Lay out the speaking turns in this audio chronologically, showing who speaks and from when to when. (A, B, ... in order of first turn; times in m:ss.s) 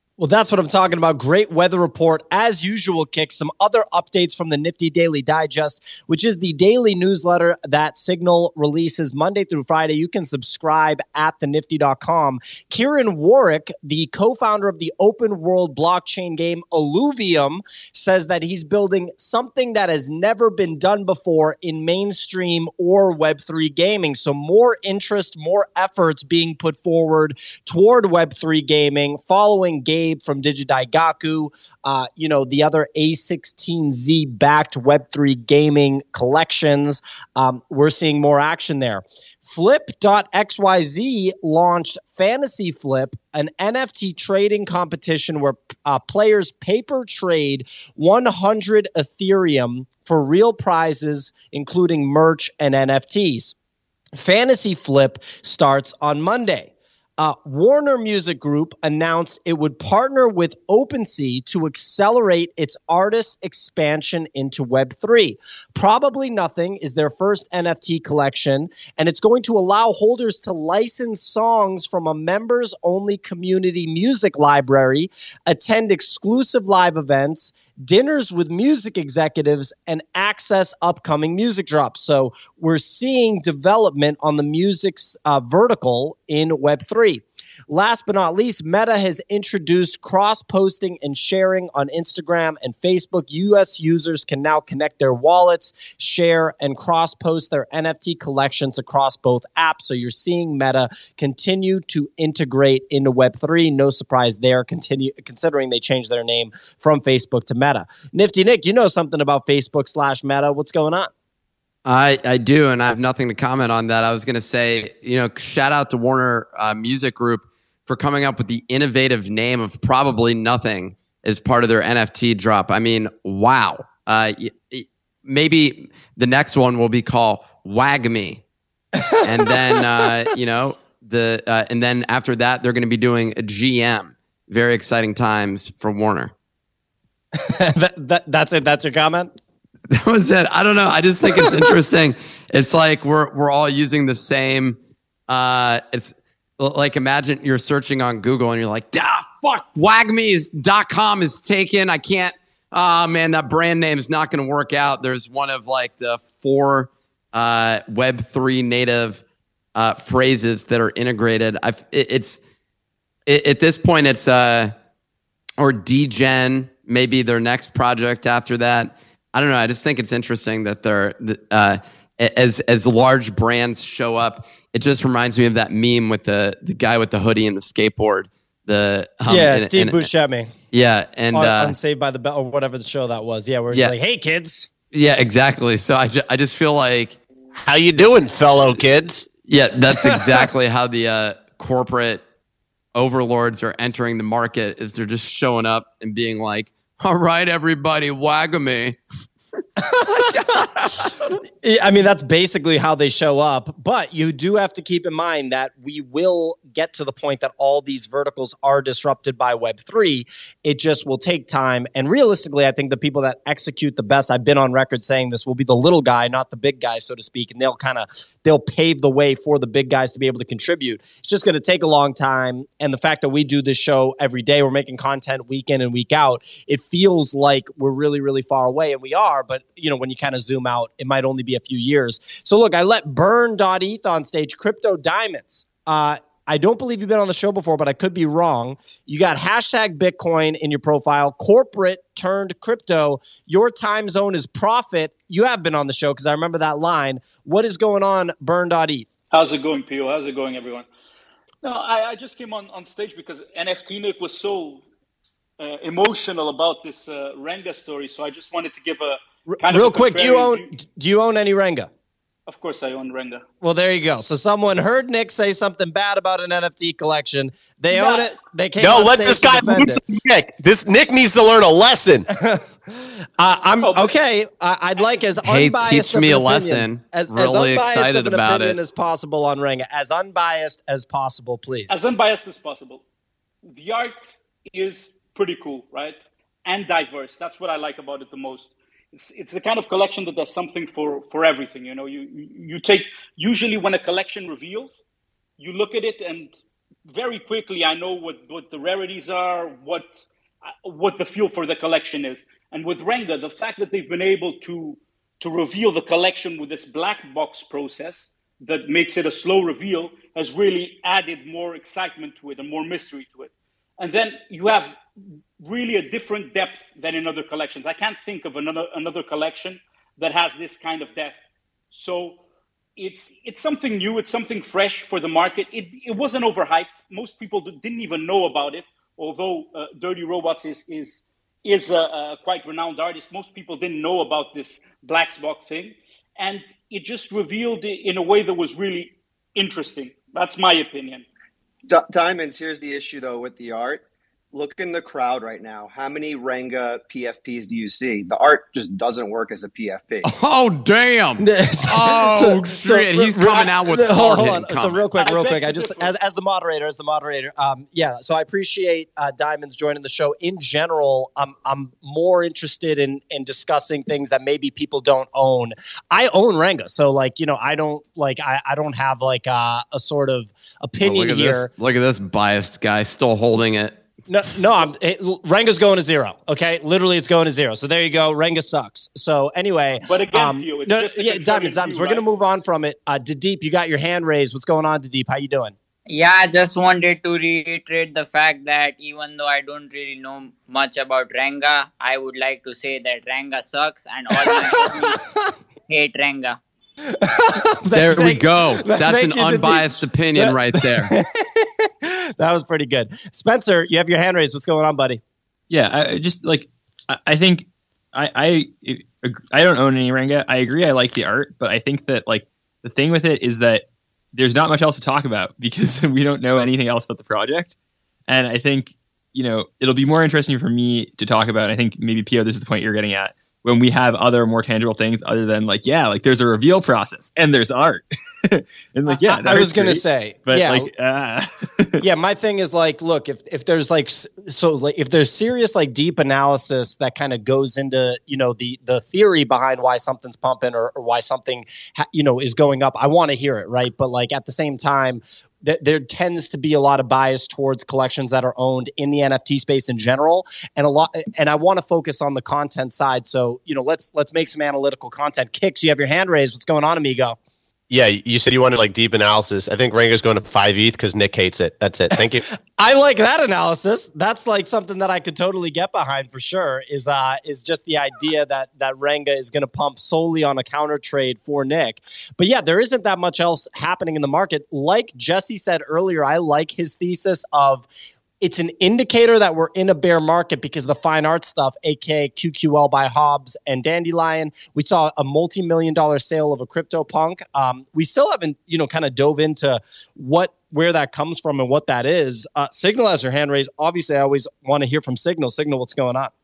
0:00.2-0:53.6 A
0:54.2-1:51.1 A
1:51.8-2:08.4 B
2:09.1-2:09.5 A
2:09.2-2:16.3 B
2:17.4-2:19.3 A
2:19.9-2:39.2 B
2:39.8-2:42.4 B
2:43.3-2:44.7 B
2:45.6-3:00.1 B
2:59.3-3:00.5 A
3:00.7-3:01.8 B
3:01.3-3:04.7 A
3:04.9-3:07.2 B
3:07.6-3:09.3 C
3:09.5-3:12.2 B
3:13.0-3:19.0 B
3:19.8-3:20.4 A
3:20.2-3:20.8 B
3:21.6-4:09.1 A
4:09.3-4:10.9 D
4:11.6-4:14.8 D
4:15.6-4:20.7 D
4:19.5-4:21.9 A
4:22.5-4:23.4 D
4:23.6-4:30.0 A
4:28.8-4:32.3 C
4:32.4-4:42.0 A
4:33.8-4:34.1 D
4:35.4-4:38.8 B
4:41.9-4:43.0 D
4:43.7-4:55.0 D
4:55.6-4:56.5 D
4:57.1-5:00.2 D
5:00.8-5:14.9 D
5:15.6-5:21.4 D
5:21.9-5:22.4 D
5:23.0-5:41.2 D
5:41.9-5:44.0 E
5:44.6-5:50.2 E
5:50.2-5:55.1 B
5:51.4-6:11.7 A
5:55.2-5:56.1 D
6:11.0-6:14.0 B
6:14.3-6:25.8 A
6:20.0-6:22.2 D
6:26.1-6:35.2 F
6:34.5-6:34.8 A
6:35.9-6:36.6 F
6:37.1-6:45.2 A
6:37.9-6:41.1 B
6:45.7-6:57.8 G
6:58.3-7:12.0 G
7:09.1-7:10.9 A
7:12.0-7:37.4 A
7:37.9-7:42.4 C
7:42.8-7:57.9 A
7:58.4-8:16.3 A